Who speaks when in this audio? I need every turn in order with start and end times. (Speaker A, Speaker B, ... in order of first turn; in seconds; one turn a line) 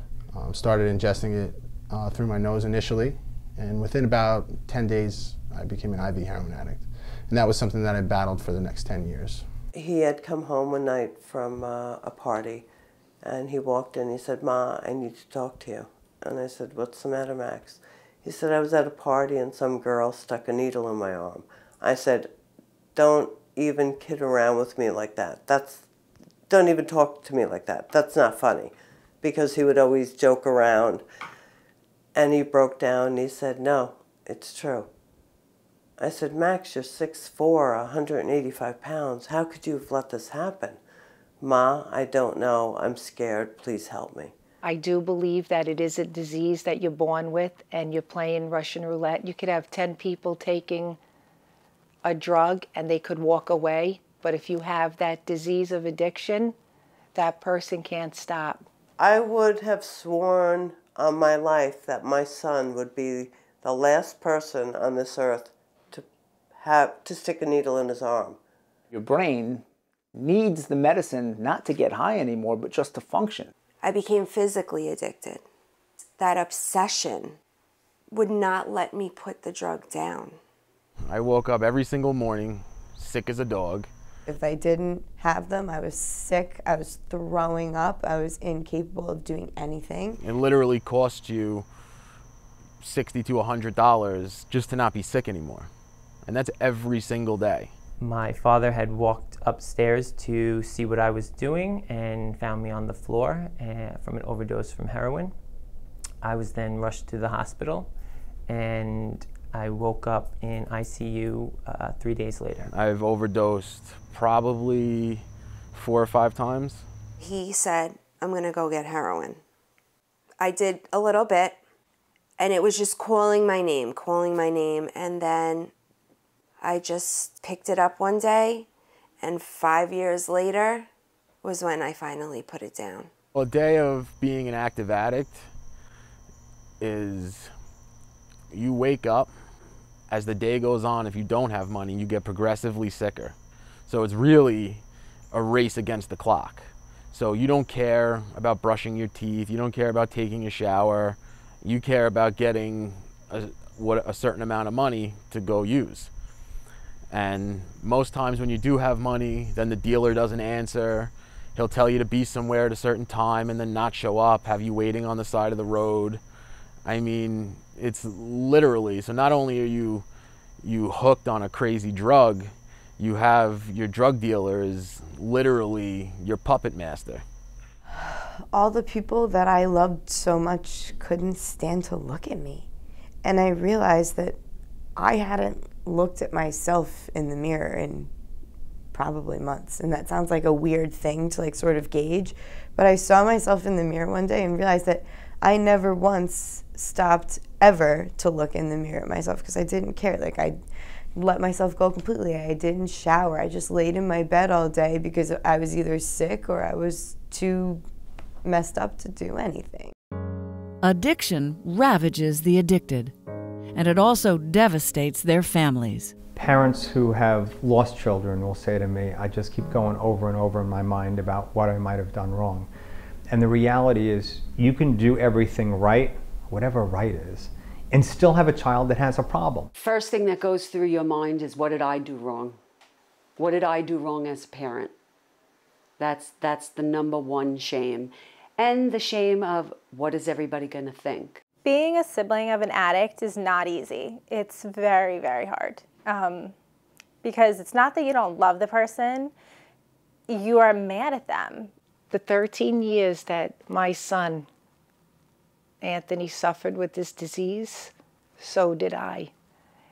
Speaker A: 0.3-9.4
Speaker B: 9.7-12.7
Speaker B: 13.2-22.3
Speaker B: 22.9-25.8
Speaker B: 26.5-31.0
Speaker B: 32.1-34.9
Speaker B: 36.0-40.8
Speaker B: 41.4-44.3
Speaker C: 44.6-51.0
Speaker C: 52.0-56.5
Speaker C: 57.1-58.6
Speaker B: 59.0-68.4
Speaker D: 68.9-69.6
Speaker D: 70.1-73.5
Speaker E: 73.8-75.4
Speaker E: 76.2-77.4
Speaker E: 78.1-80.4
Speaker F: 81.0-83.9
Speaker G: 84.2-90.2
Speaker F: 90.2-91.7
Speaker F: 92.8-95.7
Speaker F: 96.2-97.7
Speaker H: 98.0-105.3
Speaker H: 106.2-107.9
Speaker H: 108.5-112.7
Speaker F: 112.7-116.8
Speaker E: 117.2-119.4
Speaker E: 120.4-121.6
Speaker E: 122.4-125.7
Speaker E: 126.6-128.7
Speaker E: 129.2-130.9
Speaker E: 131.4-133.1
Speaker F: 133.3-135.5
Speaker F: 136.8-137.5
Speaker F: 138.5-139.3
Speaker F: 140.1-143.3
Speaker F: 143.9-156.1
Speaker F: 157.1-166.2
Speaker F: 166.8-170.0
Speaker F: 170.6-177.2
Speaker G: 177.9-182.7
Speaker G: 183.2-184.4
Speaker G: 184.9-188.1
Speaker G: 188.9-200.6
Speaker G: 201.1-207.8
Speaker G: 208.4-209.9
Speaker I: 210.8-213.1
Speaker I: 213.7-216.1
Speaker J: 216.3-222.7
Speaker J: 223.3-229.7
Speaker K: 229.7-232.6
Speaker K: 233.4-234.9
Speaker K: 236.0-241.4
Speaker L: 241.6-246.5
Speaker L: 247.2-249.3
Speaker L: 250.3-251.7
Speaker C: 252.1-254.5
Speaker C: 255.8-259.3